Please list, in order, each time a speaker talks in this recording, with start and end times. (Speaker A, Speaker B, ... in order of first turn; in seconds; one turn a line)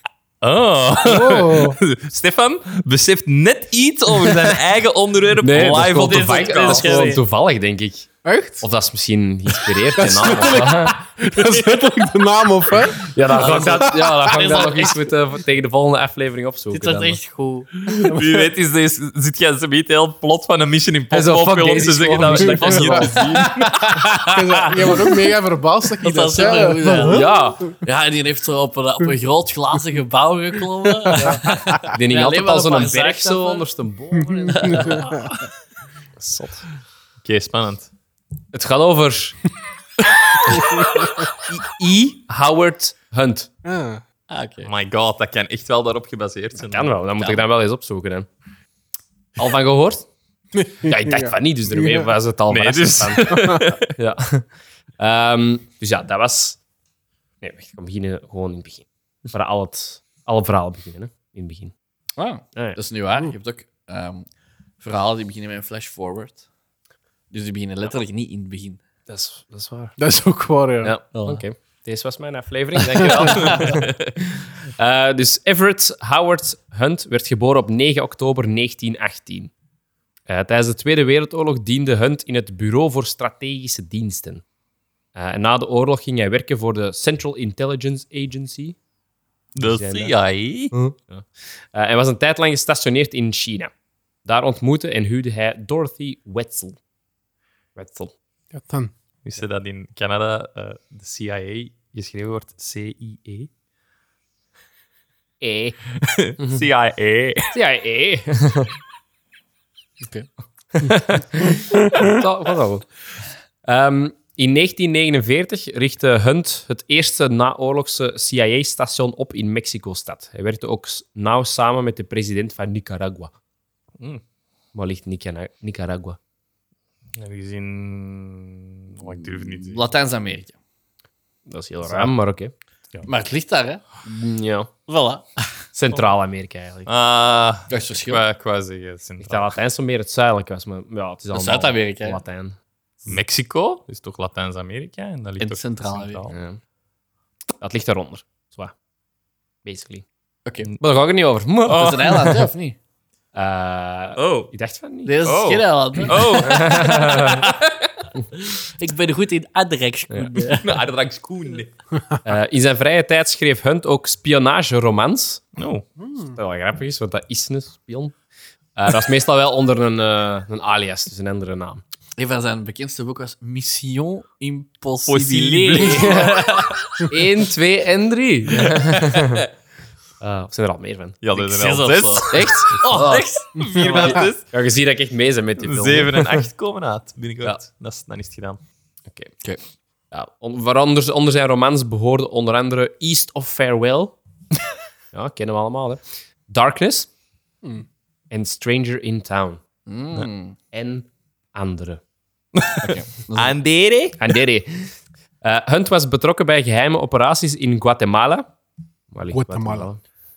Speaker A: 0.4-7.2
Speaker B: 1.1-1.8
Speaker C: 5.4-8.1
Speaker D: 6.0-7.2
Speaker B: 8.2-8.7
Speaker C: 8.6-11.0
Speaker B: 10.0-15.0
Speaker C: 13.0-17.2
Speaker D: 13.3-14.7
Speaker D: 16.7-17.7
Speaker A: 18.0-24.4
Speaker C: 21.1-24.1
Speaker B: 22.5-27.3
Speaker D: 26.0-27.3
Speaker C: 27.0-27.8
Speaker D: 27.8-33.7
Speaker B: 31.1-31.8
Speaker C: 31.2-35.2
Speaker B: 34.5-35.3
Speaker D: 34.6-35.0
Speaker C: 36.2-36.7
Speaker A: 37.2-37.9
Speaker C: 38.5-39.4
Speaker C: 41.5-43.5
Speaker B: 43.6-44.0
Speaker D: 44.3-44.7
Speaker A: 44.6-47.4
Speaker C: 46.6-48.3
Speaker C: 49.4-50.1
Speaker B: 50.6-52.1
Speaker C: 50.8-54.5
Speaker A: 52.5-53.9
Speaker C: 55.0-56.6
Speaker C: 57.4-61.7
Speaker D: 62.2-64.3
Speaker D: 64.8-66.4
Speaker D: 67.3-68.8
Speaker C: 69.1-70.0
Speaker B: 70.0-70.9
Speaker C: 70.8-79.5
Speaker D: 71.1-71.4
Speaker D: 73.1-73.7
Speaker C: 80.3-84.4
Speaker C: 85.2-88.8
Speaker A: 89.6-90.7
Speaker C: 89.6-90.1
Speaker C: 91.7-93.7
Speaker C: 94.2-96.8
Speaker C: 97.8-98.1
Speaker B: 98.5-98.9
Speaker A: 99.2-103.5
Speaker C: 105.4-105.8
Speaker A: 106.0-107.5
Speaker C: 107.5-108.7
Speaker D: 110.0-110.3
Speaker C: 110.8-112.9
Speaker C: 113.6-123.3
Speaker C: 124.8-126.2
Speaker A: 127.2-129.8
Speaker D: 129.2-130.6
Speaker C: 131.5-132.5
Speaker D: 131.9-132.1
Speaker D: 133.1-133.8
Speaker C: 134.1-134.7
Speaker D: 134.9-135.5
Speaker C: 135.7-136.9
Speaker A: 136.9-139.5
Speaker D: 137.7-138.2
Speaker C: 139.2-143.1
Speaker D: 141.3-142.2
Speaker A: 143.1-146.3
Speaker D: 145.4-146.2
Speaker C: 146.3-146.6
Speaker C: 147.6-148.7
Speaker C: 149.6-150.1
Speaker D: 150.4-150.7
Speaker C: 150.8-152.5
Speaker D: 151.7-152.8
Speaker C: 153.3-155.2
Speaker A: 154.2-154.5
Speaker D: 155.1-156.9
Speaker A: 155.2-158.1
Speaker C: 156.4-157.5
Speaker D: 158.4-160.8
Speaker C: 160.1-160.3
Speaker A: 160.4-161.7
Speaker C: 162.2-165.4
Speaker A: 165.6-165.8
Speaker B: 166.0-166.3
Speaker C: 166.3-168.2
Speaker C: 168.8-171.8
Speaker D: 172.2-176.8
Speaker A: 175.1-176.7
Speaker C: 177.1-179.5
Speaker C: 180.2-181.2
Speaker A: 181.2-184.4
Speaker D: 181.4-184.2
Speaker C: 182.3-183.3
Speaker C: 183.8-186.4
Speaker A: 185.6-188.6
Speaker C: 190.1-194.2
Speaker C: 195.1-197.1
Speaker C: 198.3-199.6
Speaker D: 199.9-200.6
Speaker C: 200.7-202.0
Speaker A: 202.6-204.3
Speaker D: 202.8-203.6
Speaker C: 204.2-208.5
Speaker C: 209.1-210.0
Speaker B: 209.3-209.9